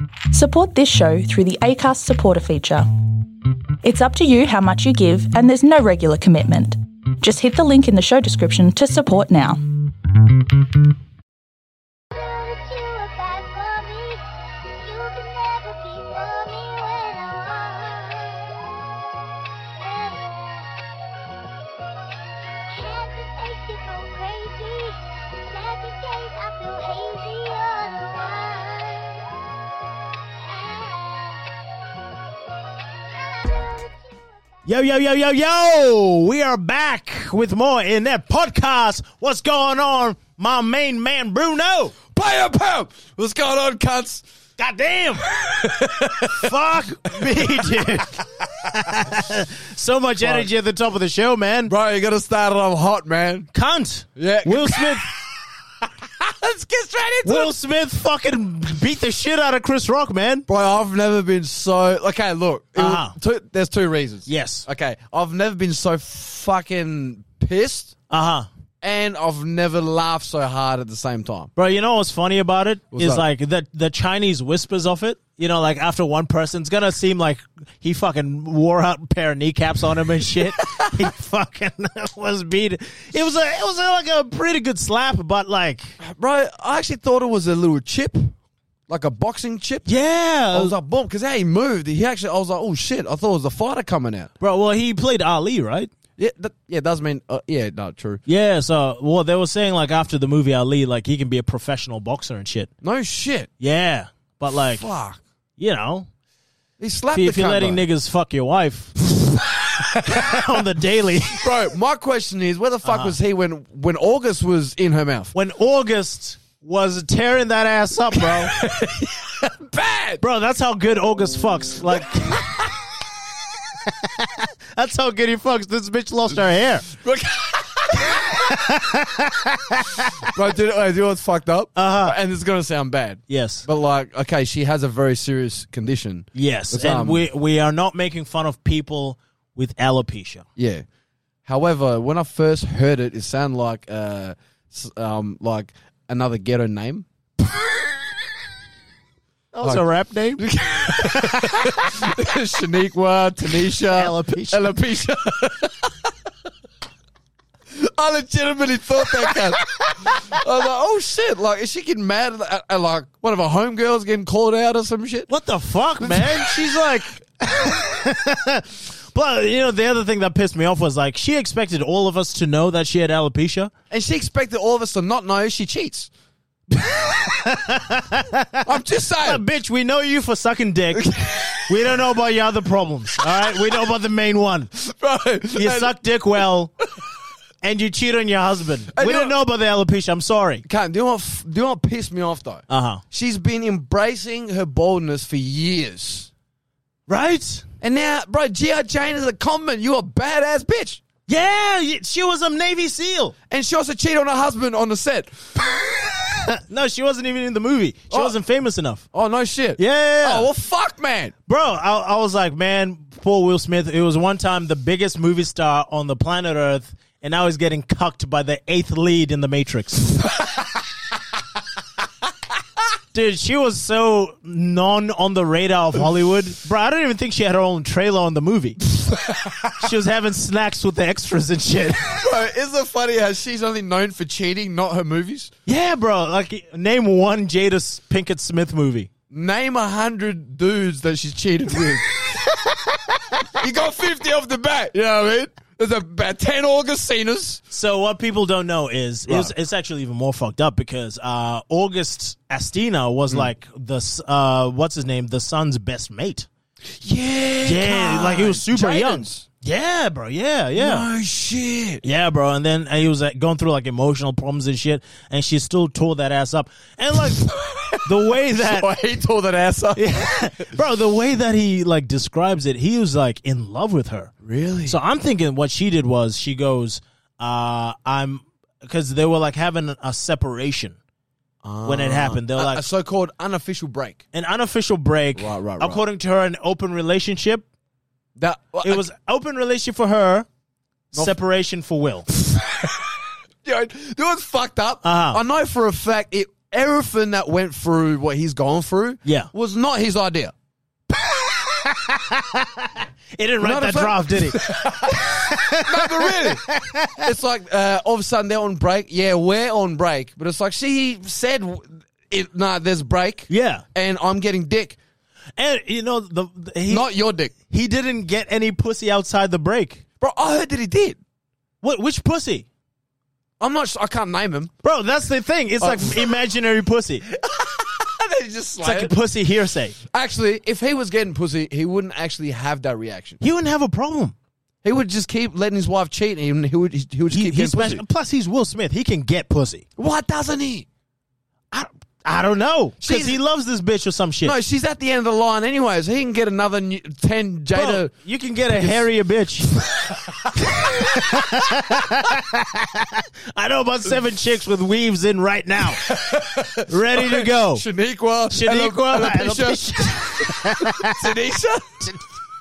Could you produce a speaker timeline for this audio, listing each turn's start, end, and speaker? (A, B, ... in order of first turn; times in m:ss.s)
0:00.3-0:02.9 A
0:03.8-0:09.7 A
0:12.1-0:18.8 A
0:19.6-0:20.9 A
0:22.6-0:29.3 A
0:30.2-0:31.8 A
0:33.0-0:34.3 A
0:34.6-0:42.0 B
0:42.1-0:44.2 C
0:44.6-0:45.3 B
0:45.2-0:46.6 C
0:46.2-0:51.7 B
0:47.2-0:49.2 C
0:50.2-0:50.5 C
0:51.7-0:53.5 C
0:53.5-0:55.0 B
0:54.2-0:55.2 C
0:55.8-0:57.5 C
0:57.2-1:00.4 B
1:00.5-1:08.0 C
1:02.8-1:03.1 B
1:04.3-1:04.6 B
1:08.1-1:08.5 B
1:08.8-1:11.5 C
1:11.6-1:26.0 B
1:12.9-1:13.2 C
1:20.7-1:21.0 C
1:26.0-1:28.3 C
1:28.9-1:29.9 C
1:29.8-1:30.8 B
1:30.5-1:34.3 C
1:34.4-1:35.9 B
1:36.2-1:38.2 C
1:38.3-1:42.7 B
1:42.8-1:43.5 C
1:43.6-1:44.9 B
1:44.5-1:45.2 C
1:45.6-1:46.1 B
1:46.8-1:47.8 C
1:47.1-1:51.5 B
1:49.8-1:50.6 C
1:51.4-1:55.3 C
1:52.8-1:53.2 B
1:55.3-1:58.6 B
1:58.1-2:00.2 C
2:00.2-2:02.6 B
2:01.9-2:02.7 C
2:03.8-2:06.9 B
2:06.9-2:08.3 C
2:08.0-2:10.3 B
2:10.2-2:17.2 C
2:11.8-2:12.1 B
2:13.3-2:13.6 B
2:16.3-2:20.4 B
2:20.6-2:20.8 C
2:21.4-2:27.0 C
2:29.5-2:31.9 B
2:30.4-2:36.1 C
2:33.8-2:34.7 B
2:37.7-2:45.3 C
2:45.3-2:53.7 B
2:46.0-2:46.9 C
2:53.9-2:56.1 C
2:56.7-3:04.7 B
2:58.6-2:59.4 C
3:00.9-3:02.0 C
3:03.2-3:03.8 C
3:04.7-3:05.9 C
3:05.5-3:06.7 B
3:07.6-3:10.6 B
3:08.9-3:09.4 C
3:10.6-3:16.3 C
3:12.7-3:13.0 B
3:17.1-3:17.6 B
3:17.8-3:21.0 C
3:21.3-3:23.3 B
3:23.5-3:25.4 C
3:25.9-3:29.0 B
3:28.1-3:28.3 C
3:29.1-3:31.3 C
3:29.8-3:30.5 B
3:31.5-3:40.3 B
3:43.1-3:48.8 B
3:48.9-3:49.9 C
3:49.7-3:52.3 B
3:52.2-3:55.5 C
3:55.6-3:59.1 B
3:59.3-4:02.7 C
4:03.4-4:07.6 C
4:07.7-4:16.5 B
4:09.3-4:09.5 C
4:16.9-4:19.4 C
4:17.6-4:21.1 B
4:20.8-4:22.0 C
4:22.0-4:27.5 B
4:27.2-4:30.0 C
4:28.0-4:28.9 B
4:29.9-4:34.3 B
4:34.4-4:35.0 C
4:34.8-4:41.0 B
4:41.6-4:44.2 C
4:41.8-4:42.8 B
4:44.3-4:47.6 B
4:45.4-4:46.0 C
4:48.4-4:49.0 C
4:48.8-4:50.4 B
4:51.1-4:52.3 B
4:52.3-5:00.5 C
4:55.0-4:55.4 B
4:59.2-4:59.5 B
5:01.3-5:07.3 B
5:03.6-5:06.6 C
5:07.2-5:15.0 C
5:13.5-5:13.8 B
5:15.6-5:17.1 B
5:16.9-5:17.5 C
5:17.7-5:20.0 B
5:20.2-5:21.2 C
5:21.8-5:22.7 B
5:23.6-5:24.7 C
5:24.8-5:27.2 B
5:25.8-5:26.3 C
5:27.3-5:29.1 C
5:28.8-5:30.0 B
5:30.0-5:33.4 C
5:33.4-5:34.3 B
5:34.8-5:38.0 C
5:37.3-5:39.8 B
5:40.0-5:40.9 C
5:41.7-5:44.5 B
5:43.0-5:43.4 C
5:44.4-5:48.1 C
5:47.7-5:49.7 B
5:48.7-5:49.1 C
5:49.6-5:51.5 C
5:50.6-5:56.1 B
5:55.8-6:02.2 C
5:56.8-5:57.8 B
5:58.5-6:01.3 B